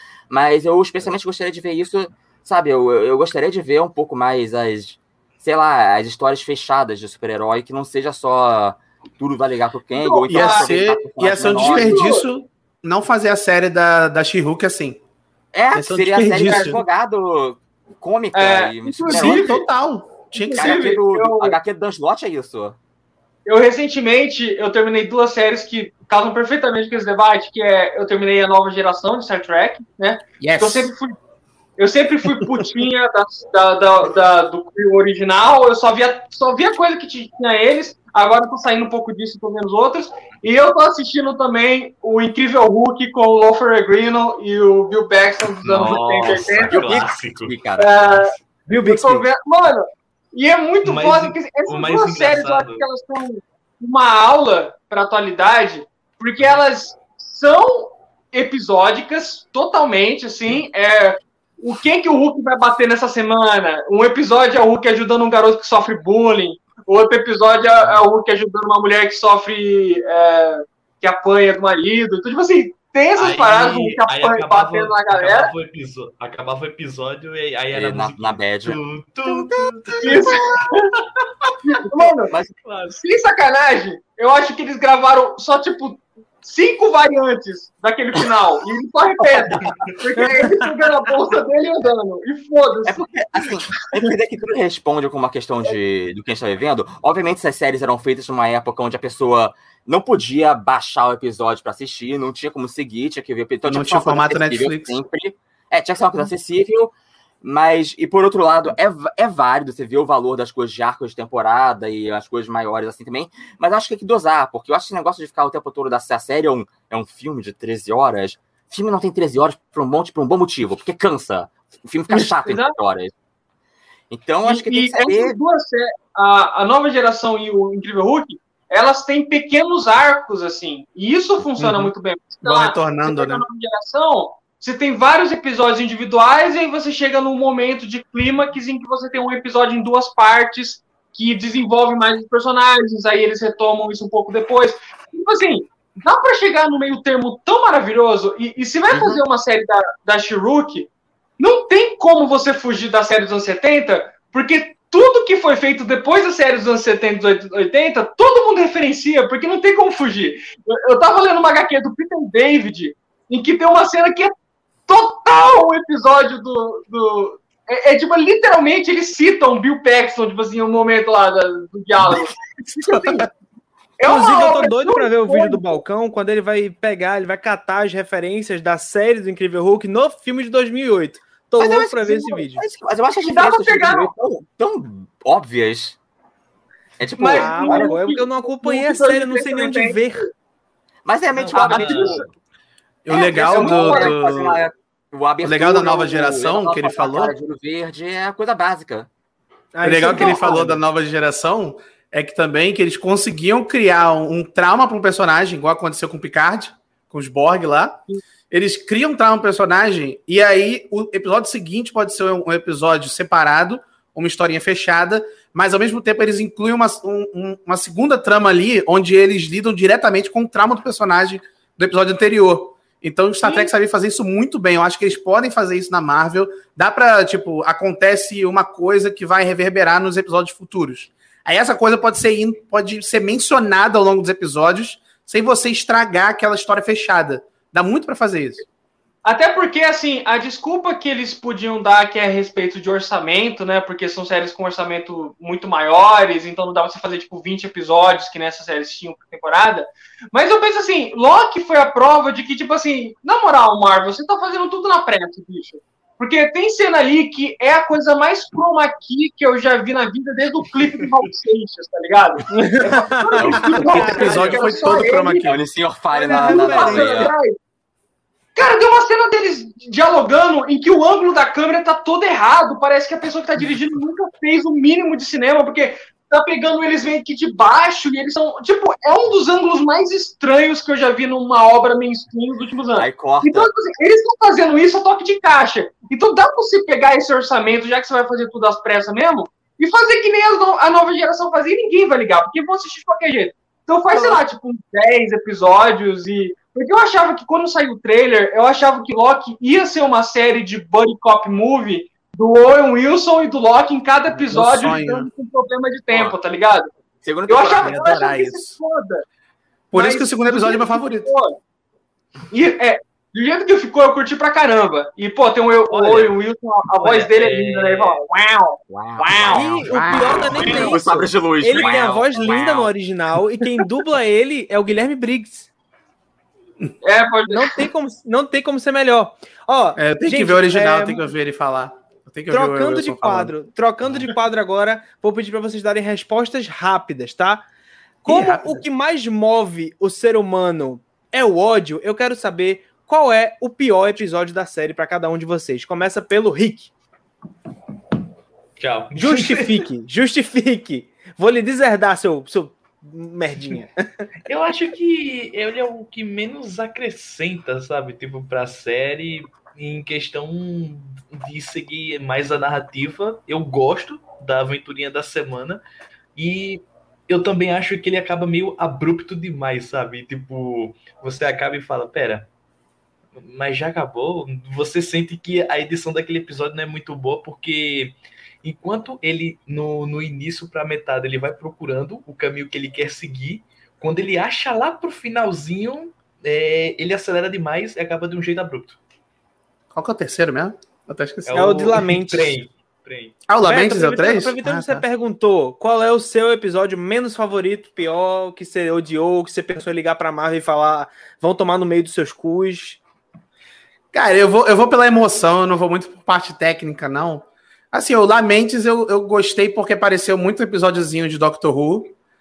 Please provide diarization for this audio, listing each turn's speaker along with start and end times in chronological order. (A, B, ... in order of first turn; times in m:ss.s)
0:00.3-0:12.1 A
0:10.0-0:10.8 B
0:10.3-0:15.0 C
0:11.4-0:12.2 B
0:15.5-0:19.6 A
0:15.7-0:16.8 C
0:16.4-0:16.8 B
0:18.3-0:19.7 B
0:19.0-0:20.9 C
0:20.3-0:21.6 B
0:20.5-0:22.8 A
0:23.4-0:31.2 B
0:30.4-0:30.9 C
0:31.8-0:47.1 B
0:45.6-0:47.6 D
0:46.7-0:48.3 A
0:47.8-1:15.5 B
0:48.9-0:49.2 A
0:50.8-0:52.8 D
1:13.2-1:20.6 D
1:17.7-1:20.6 A
1:20.0-1:20.9 B
1:21.6-1:22.4 B
1:22.0-1:22.6 A
1:22.6-1:23.0 D
1:22.9-1:33.0 B
1:29.5-1:30.0 D
1:32.8-2:03.1 A
1:43.7-1:45.0 C
2:02.1-2:02.7 B
2:04.1-2:05.4 A
2:04.4-2:44.3 B
2:11.6-2:11.9 C
2:12.4-2:13.4 C
2:28.9-2:29.2 A
2:44.9-2:53.3 B
2:52.8-2:53.2 C
2:54.0-2:55.8 B
2:54.0-3:02.6 E
3:01.6-3:06.0 A
3:03.2-3:04.1 B
3:07.0-3:08.0 A
3:07.2-3:10.2 B
3:07.3-3:10.2 E
3:11.0-3:12.2 A
3:11.3-3:12.3 D
3:11.5-3:12.2 B
3:13.0-3:14.6 C
3:13.1-3:14.2 B
3:13.1-3:19.1 A
3:15.4-3:17.3 C
3:19.7-3:20.8 E
3:19.8-3:58.6 C
3:20.1-3:20.5 B
3:43.4-3:43.7 B
3:59.2-4:25.6 B
4:22.5-4:25.0 E
4:23.4-4:24.5 A
4:23.5-4:25.6 C
4:25.4-4:27.3 A
4:26.1-4:27.6 B
4:26.2-4:27.3 E
4:28.5-5:06.9 B
4:43.0-4:43.7 A
5:04.3-5:05.3 C
5:07.2-5:08.0 A
5:07.5-5:09.2 B
5:07.8-5:08.8 C
5:09.9-5:11.3 C
5:09.9-5:11.6 B
5:12.5-5:19.8 B
5:15.9-5:16.4 D
5:17.0-5:18.2 D
5:18.9-5:22.9 A
5:19.5-5:25.7 E
5:19.6-5:20.9 C
5:27.0-5:27.7 B
5:27.5-5:31.3 E
5:30.0-5:33.5 C
5:32.5-5:37.6 E
5:38.2-5:46.9 E
5:38.3-5:38.8 C
5:48.8-5:49.8 D
5:49.1-5:54.3 E
5:54.5-6:05.8 D
6:06.4-6:12.5 D
6:13.4-6:29.0 D
6:29.9-6:32.0 C
6:31.5-6:33.4 D
6:31.5-6:32.6 E
6:33.5-6:35.0 C
6:33.6-6:43.0 E
6:44.1-6:52.1 C